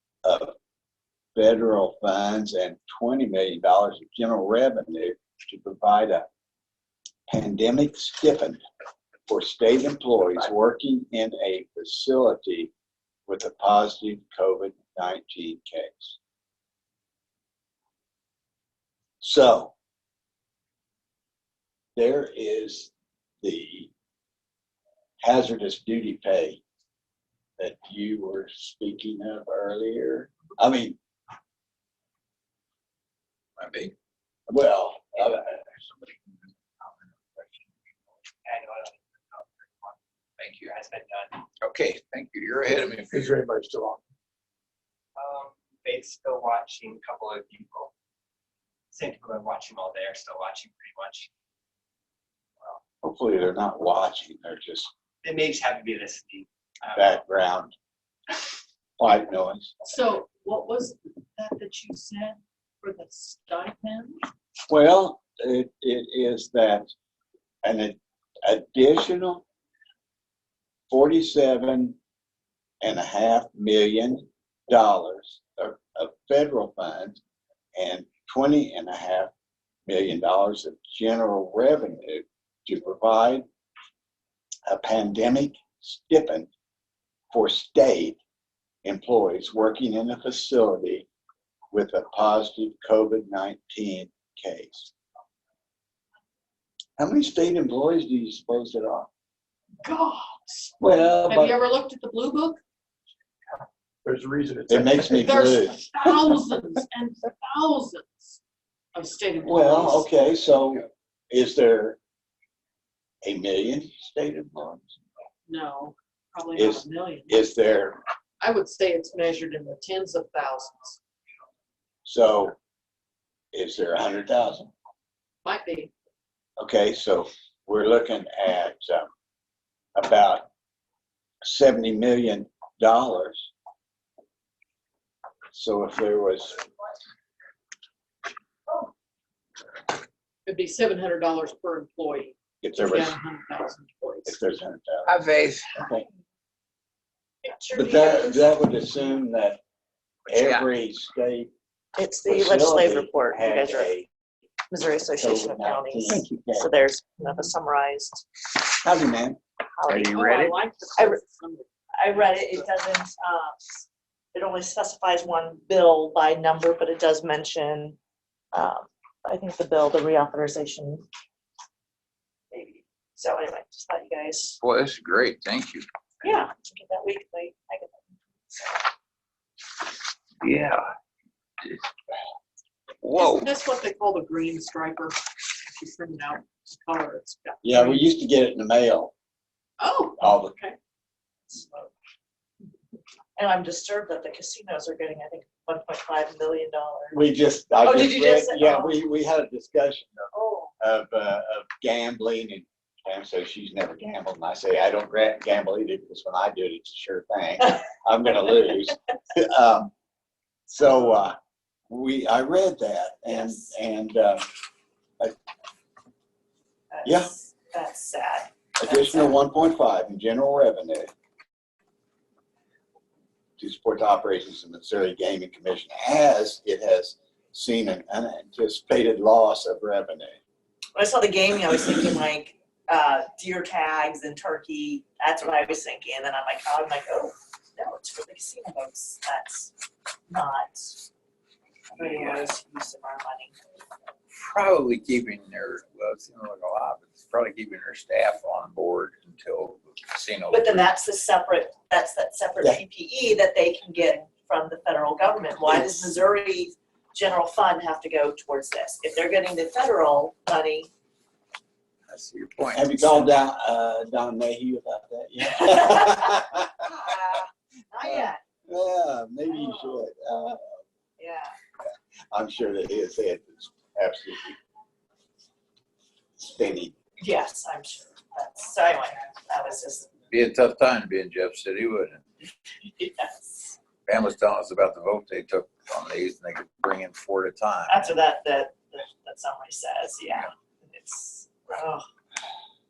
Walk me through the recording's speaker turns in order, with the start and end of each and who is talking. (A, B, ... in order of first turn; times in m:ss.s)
0:00.2-0:00.5 A
0:01.3-0:06.3 A
0:07.3-0:08.6 A
0:09.3-0:12.7 A
0:13.2-0:16.2 A
0:19.2-0:19.7 A
0:22.0-0:23.9 A
0:25.2-0:26.6 A
0:27.6-0:31.0 A
0:33.6-0:33.9 B
0:34.5-0:35.6 A
0:38.4-0:41.4 C
0:41.6-0:43.3 B
0:43.1-0:44.0 D
0:45.2-0:47.9 C
0:48.9-0:51.3 C
0:53.0-0:54.9 A
0:55.2-0:57.0 C
0:56.9-0:57.7 A
0:59.0-0:59.7 A
0:59.8-1:04.2 E
1:04.7-1:06.9 A
1:07.6-1:09.4 A
1:10.9-1:12.0 A
1:12.8-1:17.2 A
1:17.7-1:19.3 A
1:19.8-1:23.4 A
1:24.7-1:26.5 A
1:27.3-1:28.2 A
1:28.8-1:31.1 A
1:31.7-1:34.9 A
1:37.0-1:39.1 A
1:39.8-1:42.6 E
1:40.8-1:41.5 A
1:44.0-1:45.2 D
1:44.7-1:46.2 A
1:45.1-1:48.4 E
1:48.9-1:50.1 E
1:49.4-1:52.0 A
1:53.2-1:54.9 A
1:55.5-1:57.4 E
1:56.5-1:58.0 A
1:58.4-2:01.0 E
2:02.0-2:02.6 A
2:03.5-2:04.7 A
2:05.4-2:05.9 E
2:06.6-2:09.1 A
2:09.9-2:10.5 A
2:11.4-2:13.5 A
2:15.5-2:16.6 A
2:20.4-2:24.4 E
2:22.6-2:23.2 A
2:24.2-2:25.2 A
2:25.0-2:25.7 B
2:25.7-2:26.1 A
2:27.4-2:28.6 F
2:27.7-2:29.6 A
2:30.3-2:31.5 A
2:30.3-2:30.7 B
2:32.0-2:33.9 F
2:32.2-2:34.1 A
2:34.7-2:38.2 F
2:35.2-2:36.7 A
2:38.8-2:39.4 A
2:39.7-2:40.2 F
2:39.9-2:40.5 B
2:40.1-2:42.5 E
2:42.0-2:48.0 F
2:48.5-2:51.0 F
2:52.5-2:54.6 F
2:54.6-2:55.8 B
2:56.2-2:58.9 F
3:00.4-3:00.8 B
3:03.0-3:03.5 B
3:03.2-3:08.1 E
3:07.6-3:09.1 A
3:09.8-3:10.8 E
3:10.2-3:10.6 A
3:11.5-3:11.9 F
3:13.4-3:17.2 F
3:17.1-3:29.9 A
3:17.8-3:19.0 F
3:20.3-3:20.7 F
3:30.7-3:31.4 A
3:31.9-3:34.4 A
3:33.3-3:33.7 F
3:36.9-3:39.4 F
3:37.0-3:37.3 A
3:38.8-3:41.1 A
3:43.6-3:50.4 A
3:50.9-3:59.7 F
4:00.3-4:01.0 F
4:01.9-4:03.5 F
4:04.3-4:10.9 B
4:10.5-4:20.9 F
4:22.1-4:23.3 B
4:22.6-4:27.0 A
4:25.6-4:28.4 F
4:28.0-4:30.8 A
4:29.4-4:30.0 F
4:31.2-4:31.5 F
4:31.8-4:34.6 A
4:36.4-4:36.9 A
4:37.2-4:40.1 F
4:40.3-4:42.2 B
4:42.8-4:43.8 F
4:44.1-4:48.1 B
4:47.9-4:52.0 F